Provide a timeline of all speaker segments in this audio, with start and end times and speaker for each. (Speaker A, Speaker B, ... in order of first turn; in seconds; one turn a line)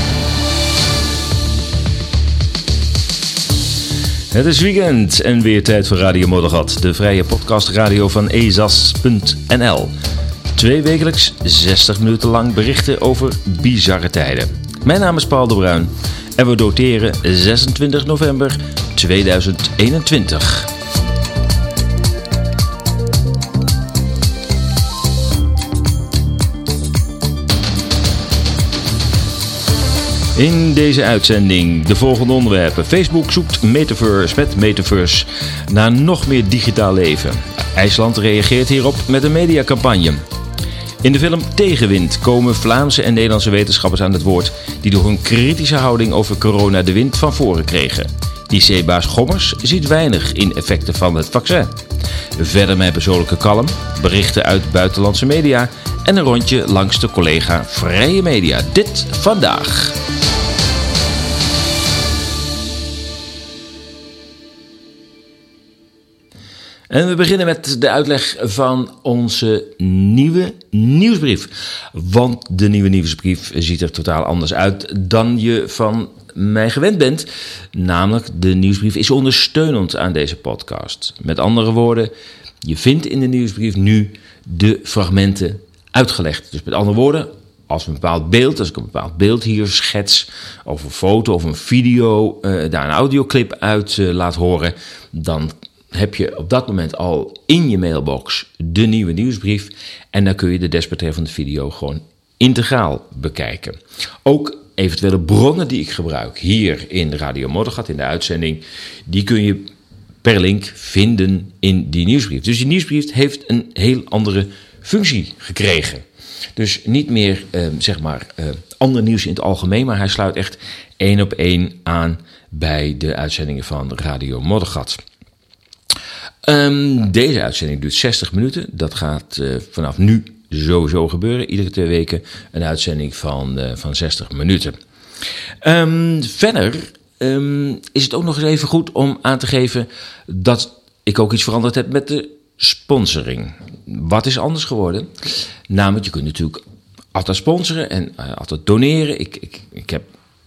Speaker A: 4.3-9.9
Speaker A: 10.5-20.7
Speaker A: 30.4-40.2
Speaker A: 41.0-51.8
Speaker A: 52.4-60.0
Speaker A: 66.9-82.1
Speaker A: 82.6-109.7
Speaker A: 110.2-116.0
Speaker A: 116.5-125.0
Speaker A: 126.5-134.8
Speaker A: 135.6-145.1
Speaker A: 145.7-146.6
Speaker A: 147.1-150.1